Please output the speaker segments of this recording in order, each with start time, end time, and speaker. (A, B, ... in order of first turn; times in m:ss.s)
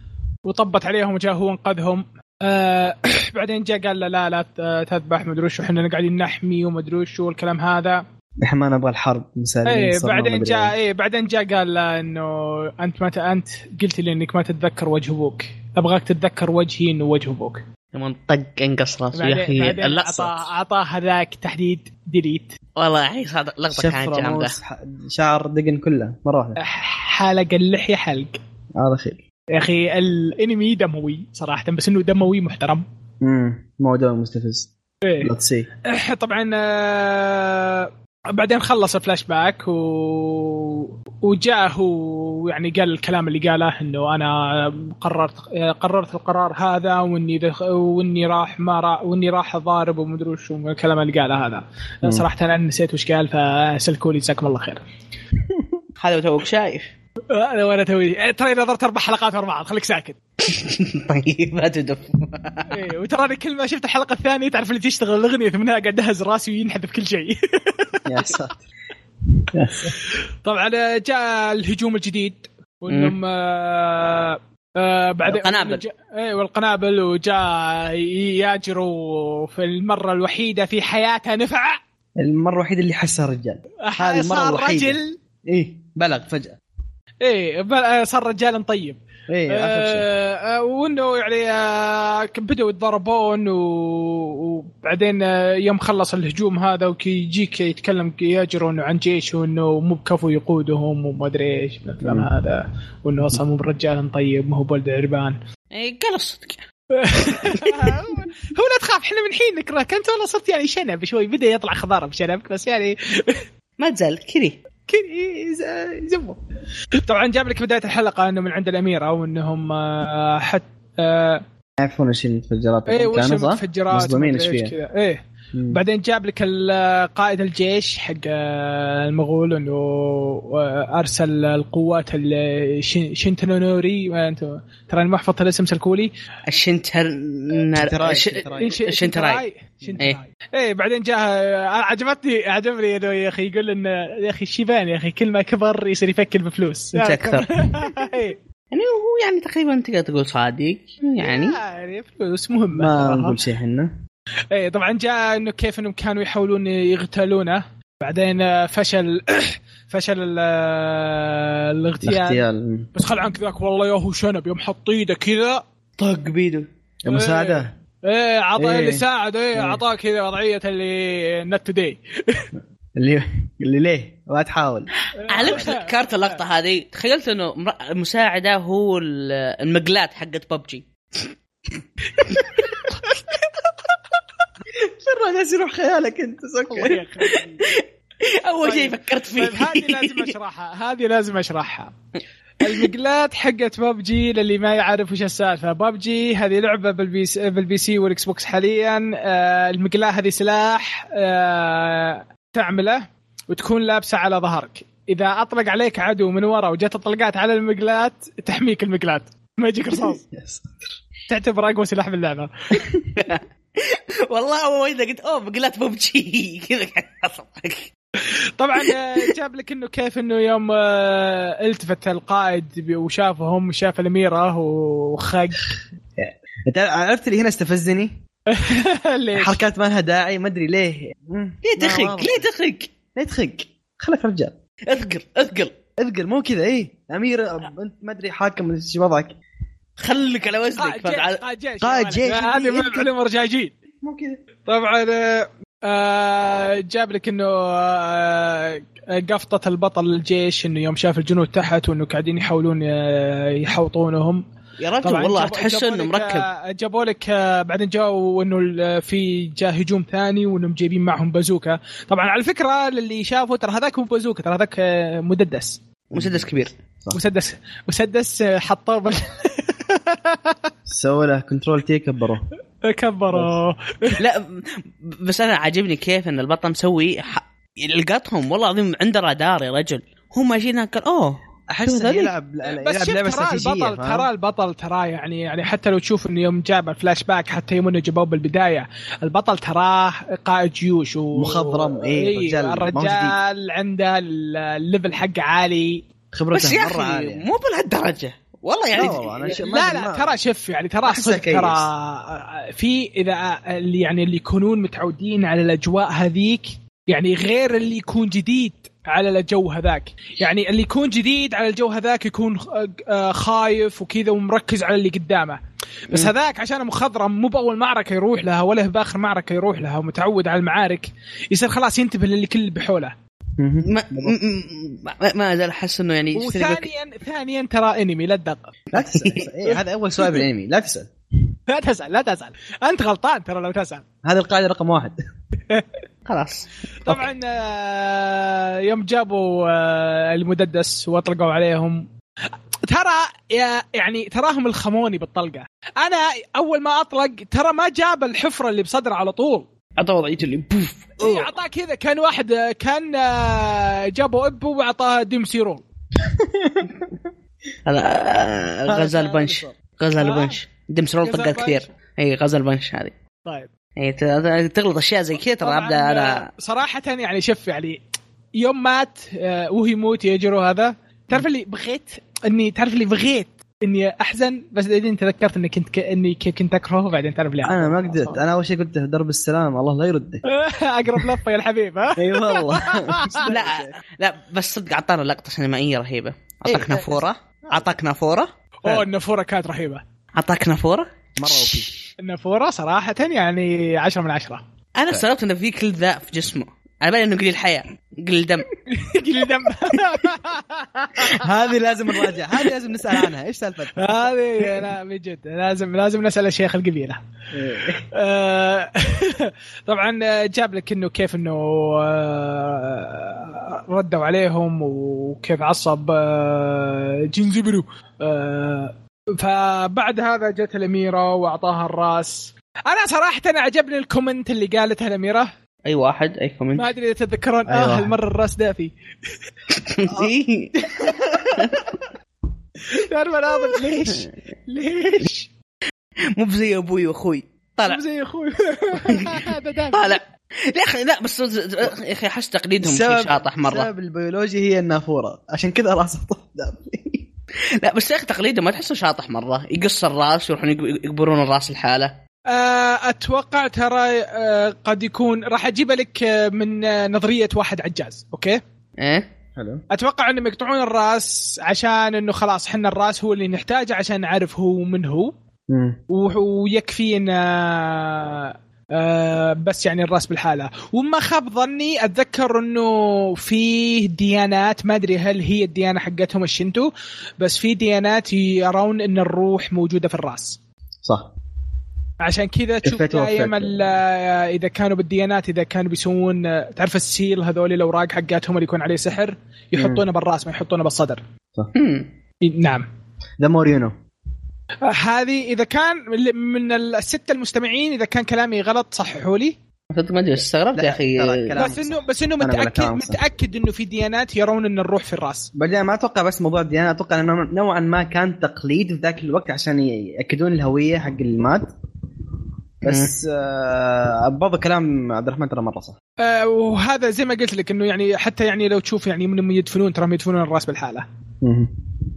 0:00.4-0:08.0 A
0:08.4-0:10.7 B
0:09.6-0:17.6 A
0:17.9-0:20.4 C
0:19.1-0:22.5 A
0:22.8-0:24.5 C
0:23.7-0:26.6 B
0:26.6-0:28.4 A
0:28.7-0:29.2 B
0:29.5-0:32.8 A
0:33.2-0:35.7 B
0:35.0-0:35.3 A
0:35.9-0:54.8 A
0:56.0-0:56.9 C
0:57.3-1:00.2 A
1:00.4-1:02.7 C
1:02.7-1:08.0 A
1:08.0-1:08.7 B
1:09.5-1:09.9 B
1:10.4-1:21.8 A
1:15.2-1:15.8 C
1:22.2-1:26.6 B
1:23.8-1:25.2 A
1:27.2-1:29.0 A
1:29.3-1:30.0 B
1:29.5-1:45.4 A
1:42.0-1:42.3 B
1:45.7-1:46.6 C
1:46.9-1:53.4 A
1:47.5-1:47.9 C
1:53.8-1:54.6 C
1:54.9-1:56.4 A
1:57.0-2:01.4 A
2:01.8-2:04.7 B
2:02.9-2:16.1 A
2:05.5-2:05.8 B
2:16.5-2:19.4 C
2:17.7-2:18.8 B
2:18.6-2:28.4 A
2:26.9-2:27.6 C
2:28.7-2:31.6 C
2:31.2-2:33.4 A
2:32.7-2:33.9 B
2:34.5-2:45.6 A
2:42.0-2:42.9 B
2:46.0-2:47.7 B
2:47.1-2:52.5 A
2:48.6-2:49.0 B
2:49.5-2:49.8 B
2:52.9-2:54.9 B
2:55.2-2:56.4 A
2:55.3-3:01.3 C
3:02.2-3:02.6 C
3:02.2-3:03.1 A
3:04.7-3:07.0 B
3:06.7-3:07.6 A
3:07.3-3:10.3 C
3:08.6-3:11.9 A
3:12.6-3:30.2 A
3:29.9-3:31.0 B
3:31.3-3:32.7 A
3:33.1-3:37.9 C
3:38.2-3:45.6 A
3:46.2-3:48.1 B
3:48.5-3:49.6 A
3:49.3-3:52.4 B
3:51.6-3:52.9 C
3:53.1-3:54.5 B
3:54.9-3:55.7 C
3:56.0-3:59.4 B
4:00.0-4:01.4 C
4:00.8-4:03.7 A
4:01.8-4:03.1 B
4:04.0-4:04.4 B
4:04.6-4:14.4 A
4:14.8-4:16.5 C
4:15.0-4:25.8 A
4:26.1-4:26.7 C
4:26.1-4:27.2 B
4:27.1-4:30.7 A
4:30.9-4:32.4 B
4:32.8-4:34.2 A
4:34.2-4:42.3 C
4:41.7-4:44.3 B
4:42.6-4:56.0 A
4:51.3-4:53.4 B
4:56.3-4:57.5 B
4:56.5-4:59.6 C
4:58.9-5:00.3 B
4:59.0-5:23.1 A
5:01.0-5:01.9 B
5:23.6-5:24.3 B
5:23.8-5:26.9 C
5:26.3-5:28.7 A
5:28.9-5:31.1 B
5:29.0-5:29.4 C
5:31.7-5:34.0 A
5:34.2-5:35.2 B
5:36.2-5:37.3 C
5:37.0-5:42.1 A
5:42.9-5:49.7 A
5:50.0-5:51.4 C
5:51.2-5:55.8 A
5:56.2-5:56.9 B
5:57.8-6:03.1 C
5:58.9-5:59.8 B
6:00.2-6:00.6 A
6:01.2-6:01.8 A
6:04.0-6:06.4 C
6:05.6-6:08.0 A
6:08.6-6:18.4 A
6:17.6-6:20.4 B
6:20.5-6:23.5 A
6:22.2-6:24.0 B
6:23.5-6:28.5 C
6:26.6-6:27.9 B
6:28.8-6:30.0 A
6:30.3-6:31.9 C
6:31.4-6:31.9 B
6:32.2-6:34.6 A
6:35.0-6:38.7 C
6:38.9-6:41.4 A
6:41.2-6:44.9 B
6:42.3-6:42.7 A
6:44.0-6:47.2 A
6:47.5-6:48.0 B
6:48.1-7:05.5 A
7:05.8-7:06.9 C
7:06.8-7:08.9 A
7:07.7-7:08.1 B
7:09.7-7:10.8 C
7:11.0-7:11.7 A
7:12.9-7:15.5 A
7:16.3-7:18.0 C
7:17.8-7:20.2 A
7:19.0-7:23.9 C
7:22.8-7:27.3 B
7:27.8-7:32.1 C
7:32.5-7:38.6 A
7:39.0-7:39.2 C
7:39.6-7:39.8 B
7:39.9-7:45.3 A
7:45.7-7:46.0 B
7:46.1-7:56.9 A
7:57.4-8:00.6 A
8:01.0-8:01.3 B
8:02.2-8:11.2 A
8:02.8-8:03.8 B
8:09.8-8:10.0 B
8:11.7-8:12.1 C
8:12.4-8:12.9 A
8:13.4-8:13.9 B
8:14.8-8:19.5 A
8:19.9-8:21.6 C
8:20.7-8:23.2 B
8:21.6-8:25.5 A
8:25.5-8:31.7 B
8:32.8-8:36.0 B
8:32.8-8:33.1 C
8:36.2-8:41.0 A
8:41.4-8:41.7 B